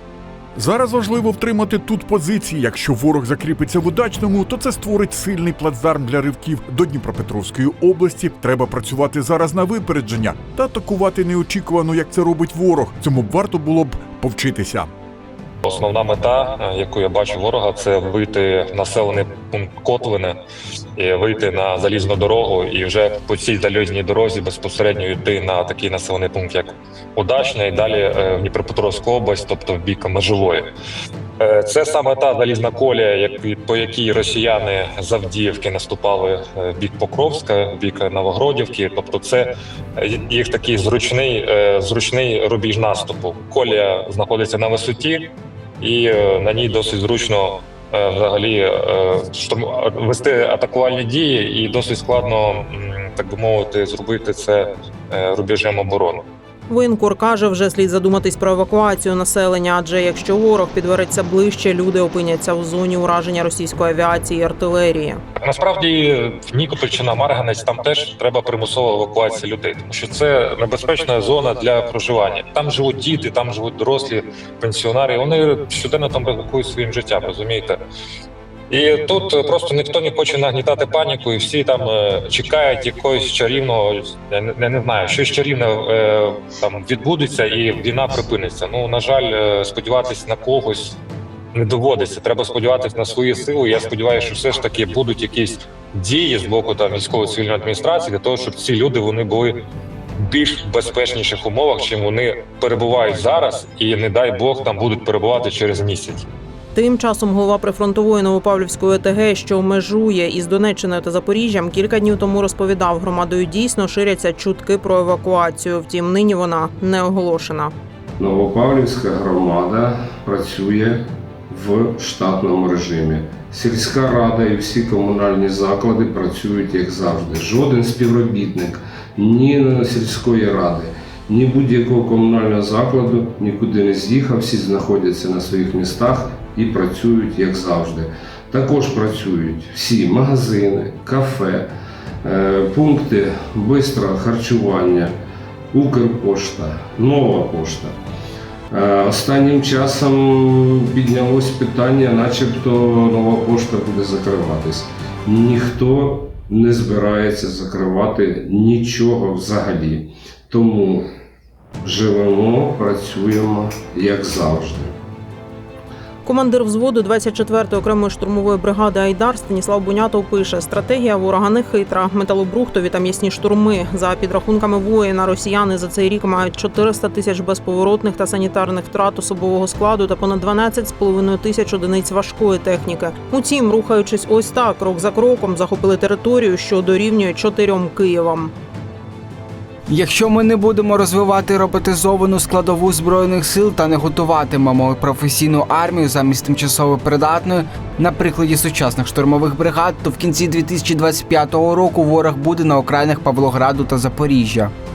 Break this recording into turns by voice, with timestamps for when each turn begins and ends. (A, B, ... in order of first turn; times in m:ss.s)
0:00.6-0:14.9 A
0:15.6-0:20.4 B
0:21.0-0:30.6 B
0:31.4-0:56.2 B
0:56.7-1:05.2 C
1:05.4-1:17.8 B
1:18.7-1:31.0 B
1:31.5-1:39.5 B
1:40.2-1:46.2 B
1:46.7-1:57.7 C
1:58.2-2:21.7 D
2:22.2-2:25.2 D
2:25.7-2:28.0 D
2:28.7-2:41.1 D
2:41.8-2:45.0 D
2:46.2-3:08.5 C
3:09.9-3:24.7 E